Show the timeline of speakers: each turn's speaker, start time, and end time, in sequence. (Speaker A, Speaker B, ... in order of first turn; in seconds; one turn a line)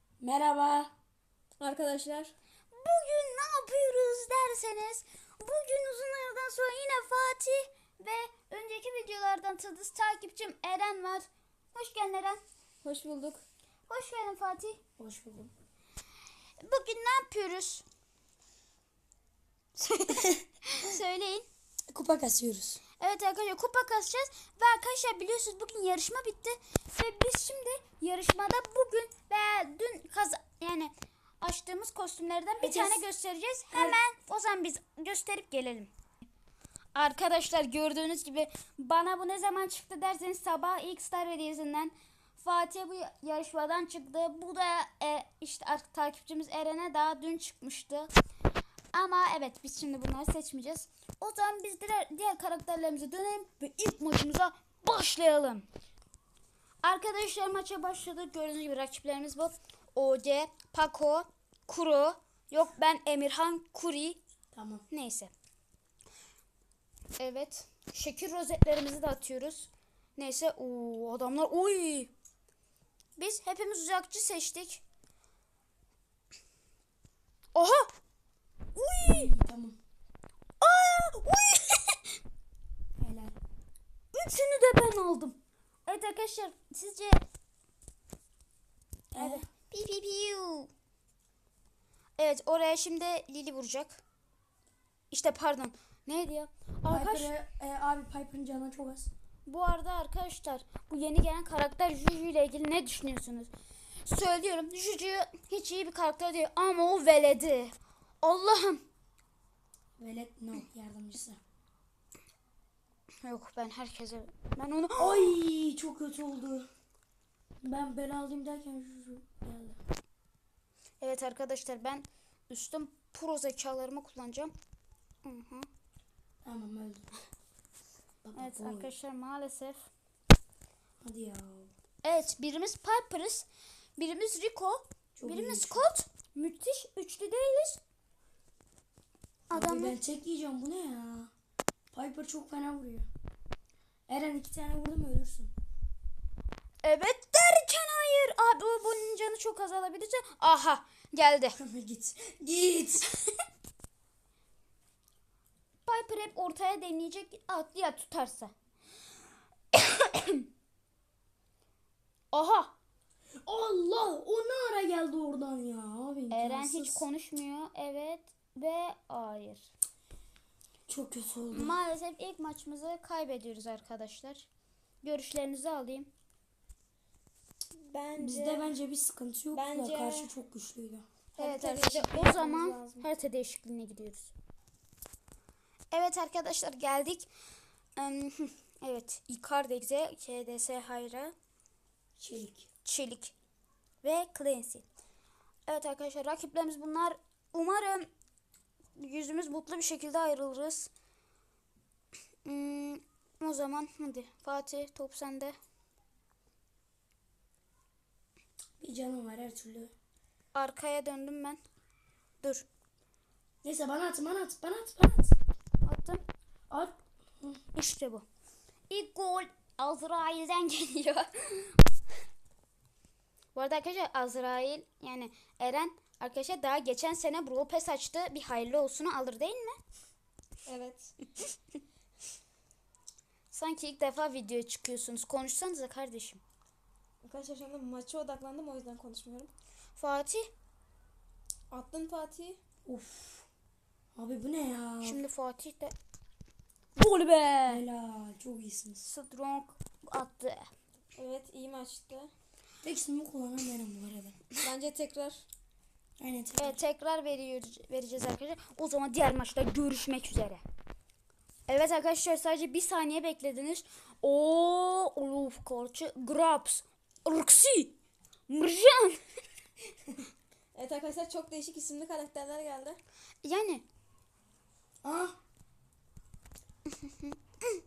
Speaker A: 0.2-0.9
Speaker B: 1.6-2.3
Speaker C: 2.7-12.4
Speaker B: 12.8-13.4
Speaker C: 13.9-14.8
Speaker A: 15.0-15.5
Speaker C: 16.6-17.8
Speaker C: 19.8-21.5
Speaker A: 20.1-20.4
Speaker A: 21.9-22.8
Speaker C: 23.0-35.9
Speaker A: 32.6-33.0
Speaker A: 33.7-34.0
Speaker C: 36.9-48.1
Speaker C: 48.9-55.7
Speaker C: 56.8-64.2
Speaker A: 64.5-64.8
Speaker C: 64.9-65.3
Speaker C: 67.2-72.1
Speaker C: 73.2-74.8
Speaker C: 77.5-77.9
Speaker C: 78.8-79.3
Speaker A: 79.0-79.8
Speaker C: 80.6-82.0
Speaker A: 83.0-83.3
Speaker C: 84.1-87.2
Speaker A: 89.1-89.5
Speaker C: 89.2-90.7
Speaker C: 92.2-94.0
Speaker C: 95.1-97.3
Speaker A: 96.9-99.1
Speaker C: 99.5-103.5
Speaker C: 104.0-108.8
Speaker A: 110.0-111.4
Speaker C: 113.2-115.3
Speaker A: 115.0-116.7
Speaker A: 117.6-119.8
Speaker C: 121.0-124.5
Speaker C: 125.2-125.7
Speaker A: 126.4-127.1
Speaker A: 128.2-128.9
Speaker C: 128.4-129.9
Speaker A: 131.0-131.7
Speaker C: 132.0-137.8
Speaker A: 135.2-135.8
Speaker C: 139.5-140.0
Speaker A: 139.5-141.3
Speaker A: 141.9-143.1
Speaker A: 144.1-145.5
Speaker C: 146.8-151.6
Speaker A: 151.6-153.1
Speaker C: 155.8-158.5
Speaker C: 159.7-160.4
Speaker C: 162.3-162.7
Speaker A: 163.5-167.1
Speaker C: 166.3-169.7
Speaker A: 170.9-171.8
Speaker C: 171.5-174.5
Speaker C: 175.0-176.1
Speaker B: 177.8-178.7
Speaker A: 178.2-181.1
Speaker B: 179.5-180.3
Speaker B: 181.4-183.1
Speaker C: 181.4-184.3
Speaker C: 185.9-187.3
Speaker C: 188.0-191.3
Speaker A: 192.2-192.7
Speaker C: 192.8-193.3
Speaker C: 194.0-194.8
Speaker C: 195.7-198.1
Speaker C: 199.0-200.9
Speaker C: 202.4-205.5
Speaker A: 208.8-209.9
Speaker C: 210.5-211.6
Speaker A: 213.6-215.4
Speaker C: 215.8-216.2
Speaker A: 216.7-217.6
Speaker C: 217.7-218.2
Speaker C: 218.9-221.8
Speaker C: 223.6-229.8
Speaker B: 230.7-231.1
Speaker C: 233.5-236.4
Speaker B: 237.2-239.5
Speaker C: 240.0-240.5
Speaker B: 241.7-242.6
Speaker A: 242.9-243.4
Speaker A: 244.2-245.2
Speaker C: 245.0-245.9
Speaker C: 247.0-247.8
Speaker A: 247.7-249.1
Speaker C: 249.0-250.7
Speaker B: 251.2-252.3
Speaker A: 252.8-254.4
Speaker B: 254.6-255.4
Speaker A: 256.2-256.8
Speaker C: 256.6-260.6
Speaker C: 261.7-267.9
Speaker C: 268.5-269.2
Speaker B: 270.8-273.0
Speaker C: 273.4-273.8
Speaker A: 275.0-275.4